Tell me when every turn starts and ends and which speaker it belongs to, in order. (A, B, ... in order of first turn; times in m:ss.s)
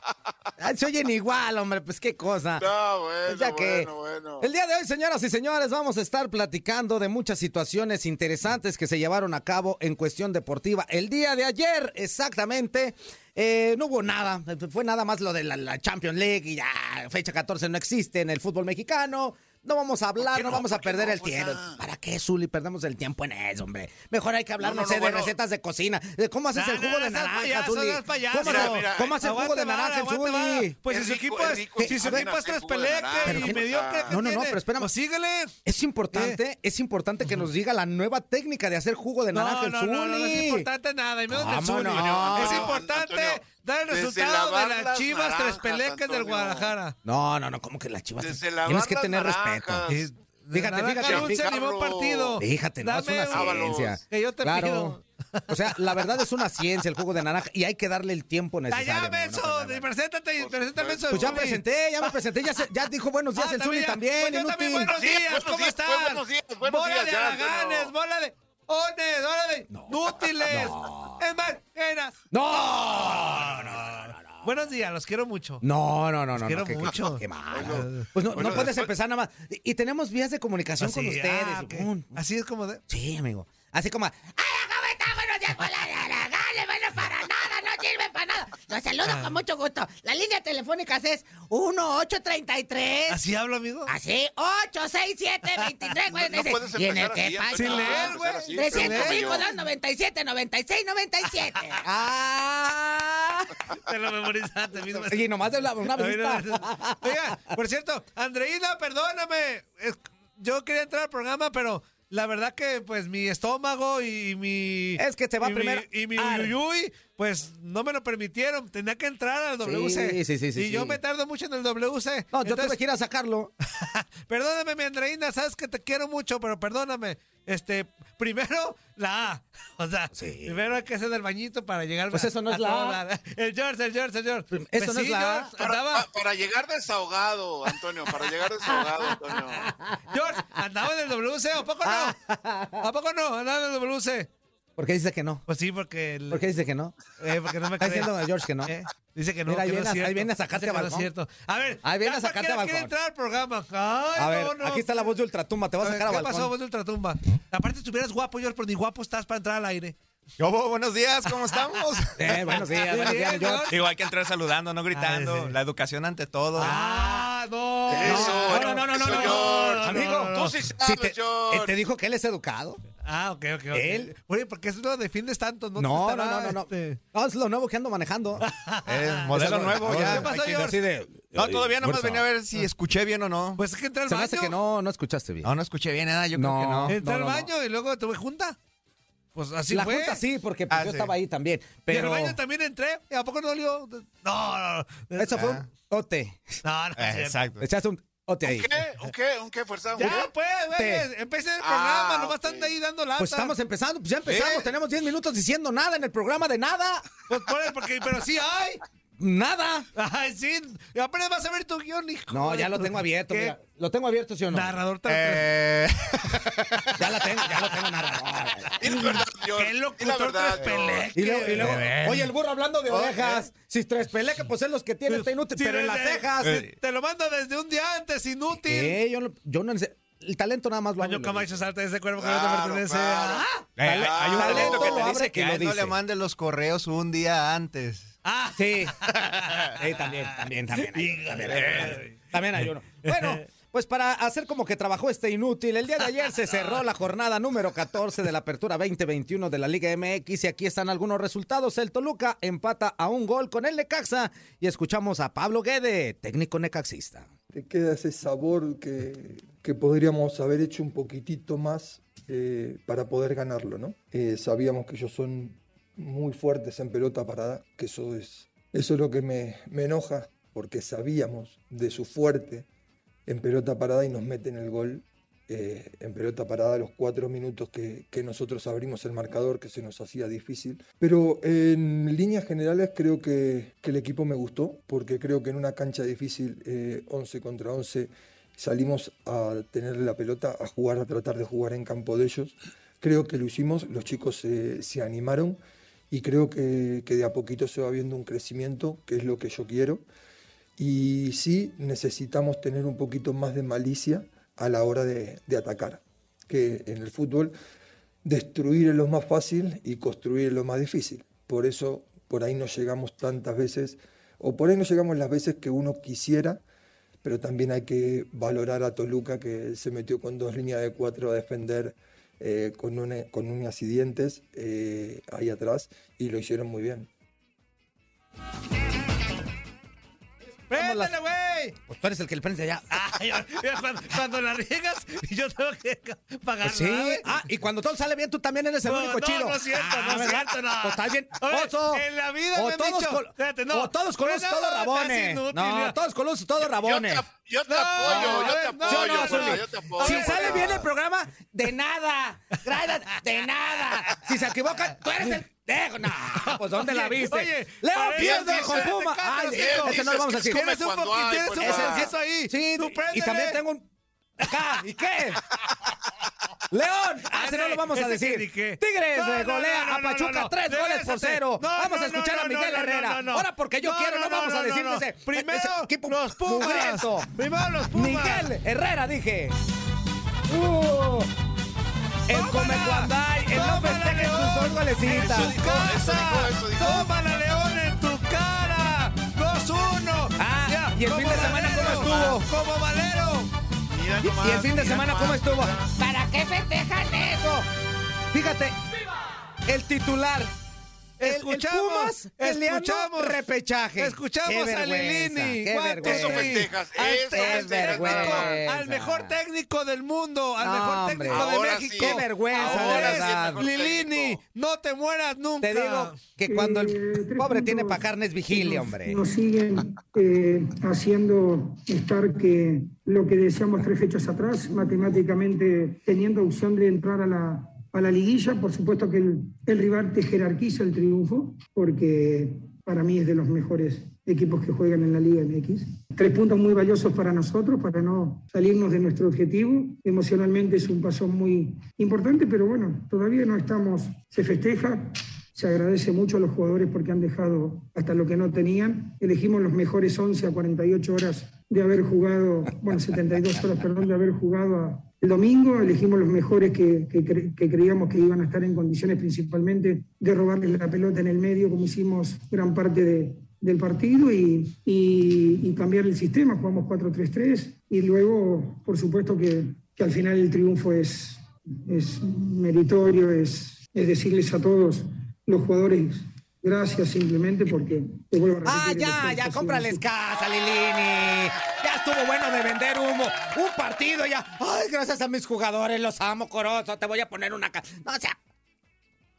0:00.6-0:02.7 A
0:02.6-0:04.5 B
0:03.2-0:30.8 A
0:20.2-0:21.8 B
0:24.6-0:25.4 B
0:26.6-0:35.6 C
0:28.4-0:29.2 B
0:30.9-0:34.2 B
0:31.8-0:32.2 A
0:33.2-0:34.9 A
0:35.6-0:40.7 A
0:36.1-0:36.4 C
0:39.3-0:47.0 C
0:41.3-0:42.8 A
0:41.9-0:46.7 B
0:47.0-0:49.9 A
0:48.2-0:50.1 B
0:49.9-0:56.0 C
0:50.5-0:51.5 A
0:51.0-0:52.4 B
0:52.4-0:59.9 A
0:53.3-0:54.0 B
0:58.7-1:02.1 C
1:00.4-1:01.5 B
1:01.1-1:04.9 A
1:03.4-1:12.2 C
1:04.9-1:07.9 B
1:09.7-1:11.2 A
1:12.3-1:14.6 A
1:13.3-1:15.6 C
1:15.6-1:22.1 A
1:16.4-1:18.1 C
1:17.5-1:18.9 B
1:20.8-1:22.8 C
1:22.9-1:33.3 A
1:29.0-1:29.3 C
1:33.1-1:33.9 C
1:33.9-1:43.6 A
1:36.1-1:39.5 B
1:37.6-1:39.4 C
1:43.7-1:45.3 C
1:45.0-1:47.4 A
1:45.9-2:02.8 C
1:55.0-1:56.6 A
1:59.6-2:01.0 A
2:02.3-2:03.5 A
2:03.8-2:16.1 C
2:10.1-2:10.6 A
2:12.1-2:13.0 A
2:14.5-2:15.5 A
2:15.6-2:19.7 B
2:18.8-2:20.0 A
2:20.1-2:22.2 C
2:21.8-2:22.9 A
2:22.8-2:24.3 C
2:24.8-2:25.4 A
2:25.5-2:26.4 C
2:26.3-2:27.0 A
2:27.2-2:35.1 C
2:27.8-2:28.7 A
2:29.5-2:31.1 A
2:31.8-2:32.9 A
2:34.2-2:36.5 A
2:35.8-2:40.0 C
2:40.4-2:42.6 D
2:42.2-2:43.8 A
2:42.3-2:43.8 C
2:43.7-2:46.8 D
2:44.9-2:45.6 C
2:46.6-2:47.4 A
2:46.6-2:50.6 C
2:47.9-2:52.8 A
2:47.9-2:51.8 B
2:53.0-2:57.0 C
2:53.7-2:54.1 A
2:55.8-2:58.4 A
2:58.4-3:00.8 C
2:58.9-3:00.7 D
2:59.0-3:02.3 A
3:01.3-3:03.6 D
3:03.6-3:04.6 C
3:04.1-3:05.5 A
3:05.4-3:07.0 D
3:06.3-3:07.5 A
3:06.9-3:08.6 C
3:09.4-3:10.2 C
3:09.7-3:12.4 A
3:10.7-3:11.1 D
3:11.9-3:15.6 C
3:15.2-3:16.6 A
3:15.3-3:15.7 D
3:16.6-3:17.4 C
3:17.0-3:17.7 D
3:17.6-3:18.7 A
3:18.4-3:20.3 B
3:20.0-3:23.6 C
3:20.8-3:21.1 A
3:21.6-3:22.7 B
3:23.2-3:27.1 A
3:24.3-3:24.7 C
3:27.3-3:28.8 C
3:29.2-3:29.9 A
3:30.0-3:33.6 C
3:32.3-3:34.8 A
3:34.5-3:35.7 C
3:35.1-3:37.7 D
3:36.9-3:39.2 A
3:38.8-3:41.0 B
3:39.6-3:42.1 C
3:40.7-3:42.3 D
3:41.1-3:46.6 A
3:42.9-3:43.5 D
3:45.1-3:49.0 C
3:46.4-3:46.7 D
3:48.6-3:51.5 A
3:51.0-3:53.6 C
3:52.2-3:55.2 B
3:53.8-3:58.2 D
3:53.8-3:56.0 A
3:54.4-3:54.8 C
3:58.2-3:59.8 C
3:58.6-4:17.3 A
4:00.8-4:02.2 C
4:01.5-4:02.0 D
4:03.0-4:03.4 C
4:17.5-4:32.7 E
4:33.3-4:55.6 E
4:56.1-5:00.0 E
5:00.8-5:07.5 E
5:08.2-5:16.6 E
5:17.2-5:27.1 E
5:30.7-5:31.1 A
5:30.7-5:31.8 C
5:31.9-5:33.0 A
5:32.9-5:37.4 C
5:36.6-5:47.2 A
5:38.8-5:46.0 C
5:46.7-5:50.8 B
5:47.7-5:50.8 C
5:48.0-6:00.7 A
5:56.4-6:03.6 C
5:58.2-6:02.1 B
6:01.6-6:03.9 A
6:04.4-6:05.5 A
6:06.7-6:17.3 A
6:07.3-6:18.5 C
6:17.9-6:19.6 A
6:20.5-6:21.3 A
6:22.3-6:25.6 A
6:22.3-6:33.5 C
6:25.0-6:27.1 B
6:30.4-6:32.5 A
6:33.9-6:35.9 B
6:34.2-6:37.7 A
6:38.3-6:38.8 A
6:39.7-6:40.5 A
6:41.2-6:43.4 C
6:41.2-6:46.6 A
6:44.0-6:56.2 C
6:46.0-6:48.6 B
6:47.3-6:49.4 A
6:50.6-6:53.6 A
6:51.3-6:54.4 B
6:55.6-6:59.2 A
6:56.4-8:00.0 F
7:58.6-8:08.4 A